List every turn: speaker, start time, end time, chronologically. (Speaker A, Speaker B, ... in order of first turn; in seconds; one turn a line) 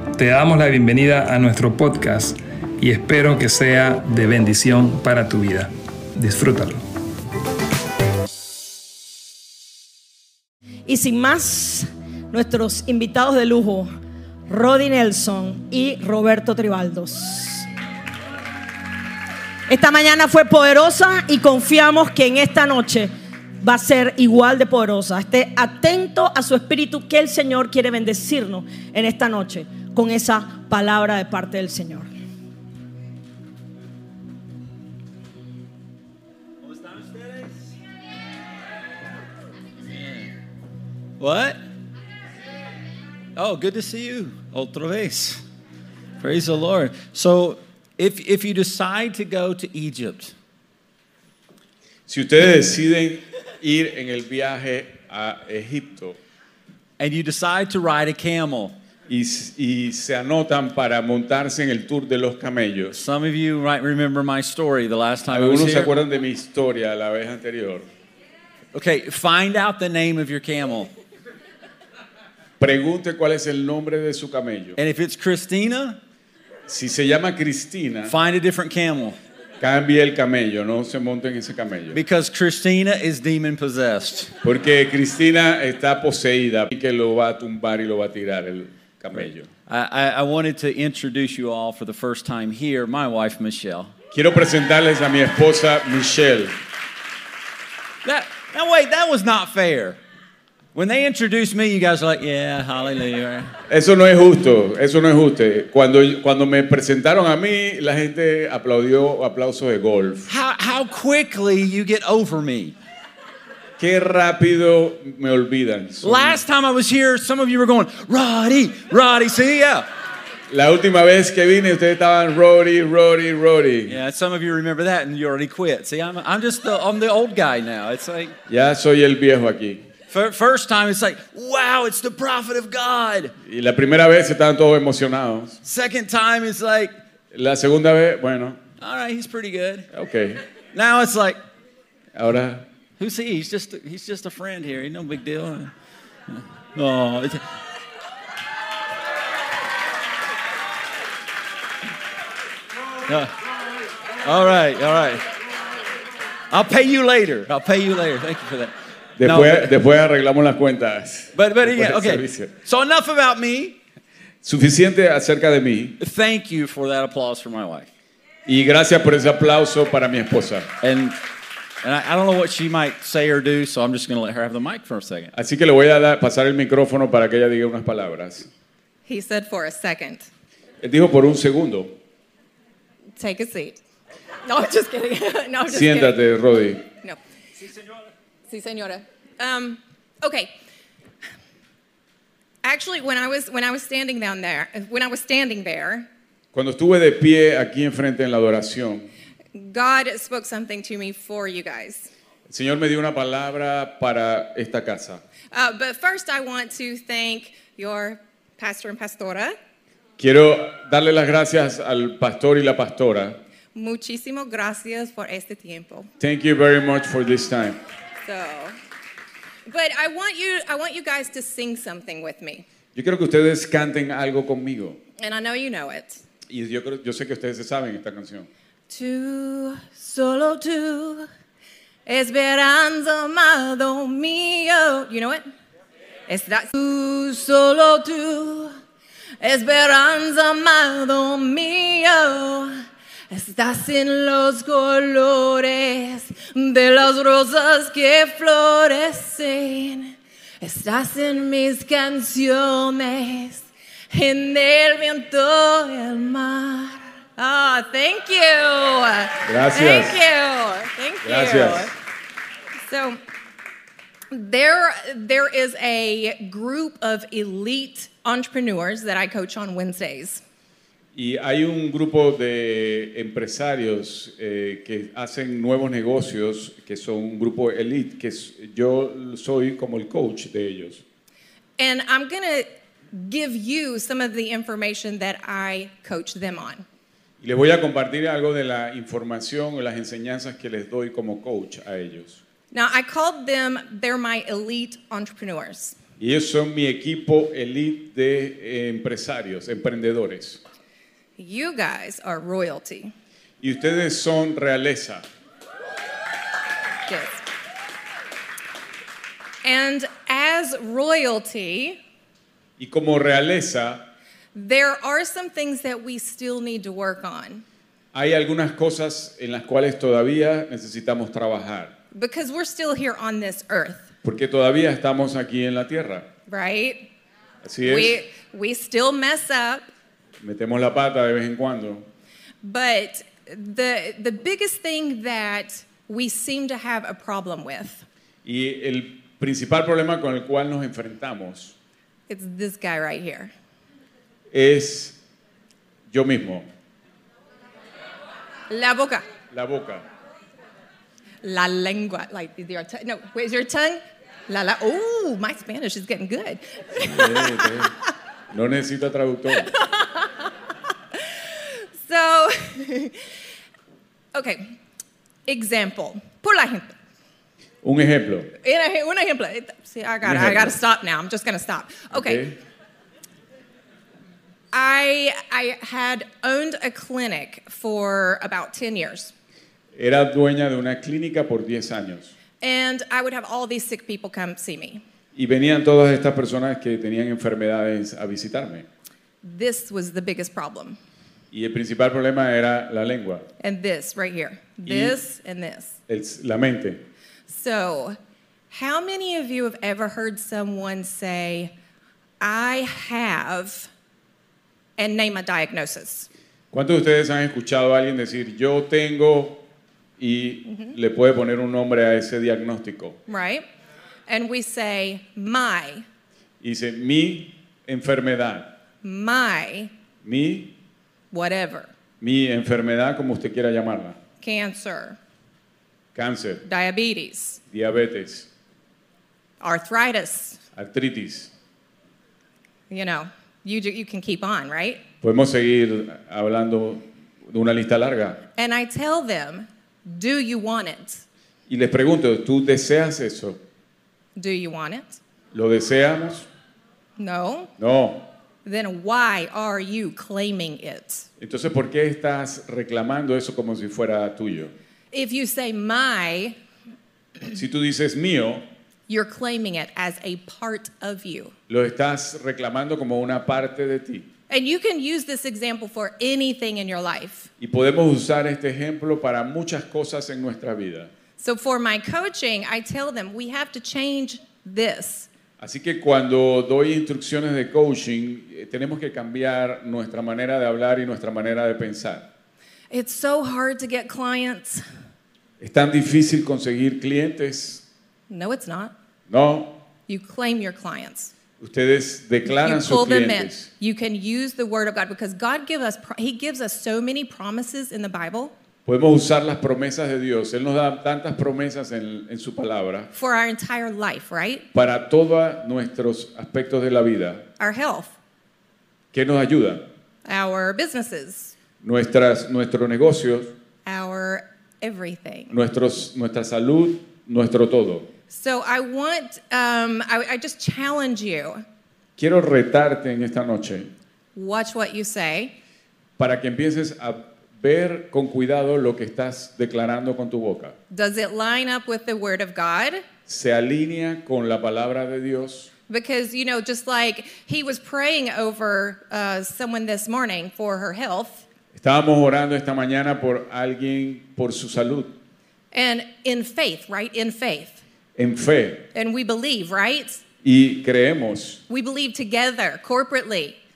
Speaker A: 0.1-6.8
Speaker B: 10.8-13.9
Speaker B: 14.5-17.7
Speaker B: 19.7-32.1
Speaker C: 36.6-37.5
Speaker C: 39.9-40.3
Speaker C: 41.2-41.6
Speaker C: 43.4-45.4
Speaker C: 46.2-50.3
Speaker D: 52.1-56.2
Speaker C: 57.0-58.8
Speaker D: 59.1-63.0
Speaker C: 62.9-65.9
Speaker D: 65.3-67.9
Speaker C: 68.7-70.9
Speaker D: 72.6-74.8
Speaker C: 74.8-76.0
Speaker D: 76.7-78.1
Speaker C: 78.1-79.2
Speaker D: 79.6-82.0
Speaker C: 81.9-84.3
Speaker D: 84.4-89.5
Speaker C: 89.7-93.9
Speaker D: 94.1-96.5
Speaker C: 98.0-100.0
Speaker C: 100.7-103.5
Speaker D: 103.7-110.3
Speaker C: 110.3-112.7
Speaker D: 113.8-116.4
Speaker C: 116.0-119.9
Speaker D: 120.5-124.0
Speaker C: 123.9-128.3
Speaker D: 128.5-129.8
Speaker C: 130.1-133.3
Speaker D: 133.4-135.6
Speaker C: 135.6-136.9
Speaker D: 137.3-138.6
Speaker C: 138.8-139.9
Speaker D: 139.9-140.4
Speaker C: 140.7-141.4
Speaker D: 142.1-142.6
Speaker C: 143.0-145.7
Speaker C: 146.3-147.4
Speaker C: 153.1-153.3
Speaker C: 154.2-155.3
Speaker C: 156.5-159.7
Speaker D: 159.2-162.5
Speaker C: 161.3-163.8
Speaker D: 164.4-166.0
Speaker C: 166.0-167.9
Speaker D: 168.4-170.7
Speaker C: 170.8-171.2
Speaker C: 171.8-175.3
Speaker D: 175.3-178.5
Speaker E: 179.1-180.3
Speaker D: 180.8-181.9
Speaker E: 183.2-183.8
Speaker E: 184.4-186.2
Speaker D: 185.7-186.8
Speaker E: 188.5-190.5
Speaker E: 192.6-196.1
Speaker D: 196.5-199.1
Speaker E: 199.5-202.1
Speaker D: 202.5-205.2
Speaker E: 205.5-209.6
Speaker D: 210.2-213.4
Speaker E: 213.7-216.1
Speaker D: 216.2-217.8
Speaker E: 218.2-218.8
Speaker E: 219.7-222.6
Speaker D: 222.9-225.0
Speaker E: 225.2-226.2
Speaker D: 226.5-228.5
Speaker E: 228.9-231.3
Speaker E: 232.1-235.5
Speaker E: 236.3-238.7
Speaker E: 239.4-261.9
Speaker D: 259.4-260.2
Speaker D: 261.2-261.9
Speaker E: 262.8-263.2
Speaker E: 264.3-270.4
Speaker D: 271.1-281.0
Speaker E: 281.8-286.8
Speaker D: 287.4-292.4
Speaker E: 292.7-296.0
Speaker D: 296.2-300.6
Speaker E: 301.4-303.1
Speaker D: 303.6-305.2
Speaker E: 307.1-307.4
Speaker E: 309.6-312.0
Speaker D: 312.8-314.1
Speaker E: 314.5-317.6
Speaker D: 318.1-321.9
Speaker E: 322.1-324.1
Speaker D: 324.2-326.3
Speaker E: 326.5-327.1
Speaker D: 327.6-328.2
Speaker E: 327.8-329.9
Speaker D: 330.4-332.1
Speaker E: 332.6-338.0
Speaker D: 338.4-341.7
Speaker E: 342.3-343.5
Speaker D: 344.5-345.2
Speaker D: 346.1-346.7
Speaker E: 348.7-349.3
Speaker D: 349.5-350.0
Speaker E: 351.4-357.9
Speaker D: 357.1-357.9
Speaker D: 358.5-359.7
Speaker E: 359.7-360.5
Speaker E: 361.1-363.2
Speaker E: 364.3-364.8
Speaker E: 365.4-366.9
Speaker D: 367.8-368.5
Speaker E: 368.6-372.4
Speaker D: 370.2-370.8
Speaker D: 372.1-372.6
Speaker E: 374.7-379.3
Speaker D: 379.9-382.3
Speaker E: 382.6-385.0
Speaker D: 385.3-388.9
Speaker E: 389.4-391.0
Speaker D: 391.5-393.5
Speaker E: 393.6-396.0
Speaker D: 394.8-395.2
Speaker D: 396.1-397.0
Speaker E: 397.5-398.2
Speaker E: 398.7-401.7
Speaker E: 402.4-403.9
Speaker E: 405.0-406.3
Speaker D: 406.7-409.6
Speaker D: 410.2-413.2
Speaker E: 410.6-410.9
Speaker E: 413.3-413.6
Speaker E: 414.3-416.1
Speaker D: 416.6-418.8
Speaker E: 419.0-419.9
Speaker D: 420.2-420.8
Speaker E: 421.3-421.9
Speaker D: 422.2-424.2
Speaker E: 424.4-425.2
Speaker D: 426.1-426.6
Speaker E: 426.6-427.6
Speaker D: 427.7-428.5
Speaker E: 429.6-430.6
Speaker D: 430.7-431.5
Speaker E: 432.9-435.0
Speaker D: 435.2-438.4
Speaker E: 438.6-441.2
Speaker D: 441.7-443.6
Speaker E: 444.4-445.2
Speaker D: 445.5-446.5
Speaker E: 447.2-447.7
Speaker D: 447.8-448.2
Speaker E: 448.6-451.3
Speaker D: 451.4-454.7
Speaker E: 455.1-456.6
Speaker D: 457.5-458.6
Speaker E: 459.1-461.5
Speaker D: 461.7-464.3
Speaker E: 464.5-467.5
Speaker D: 467.6-471.1
Speaker E: 471.4-475.3
Speaker D: 475.6-482.3
Speaker E: 482.9-484.8
Speaker D: 485.6-487.8
Speaker E: 488.3-488.9
Speaker D: 489.3-489.8
Speaker E: 490.1-491.3
Speaker D: 491.6-493.7
Speaker E: 492.4-498.5
Speaker D: 498.9-503.1
Speaker E: 503.1-504.6
Speaker D: 504.7-507.4
Speaker E: 507.6-508.1
Speaker D: 509.1-509.8
Speaker E: 510.2-511.5
Speaker D: 511.8-513.5
Speaker E: 513.9-515.5
Speaker D: 515.5-518.1
Speaker E: 518.3-521.6
Speaker D: 522.2-523.9
Speaker E: 524.3-525.5
Speaker D: 526.2-530.7
Speaker E: 530.9-533.0
Speaker D: 533.3-535.7
Speaker E: 535.9-541.4
Speaker D: 541.7-545.2
Speaker E: 545.7-547.8
Speaker D: 548.1-548.9
Speaker E: 548.9-550.2
Speaker D: 550.4-551.6
Speaker E: 551.7-553.6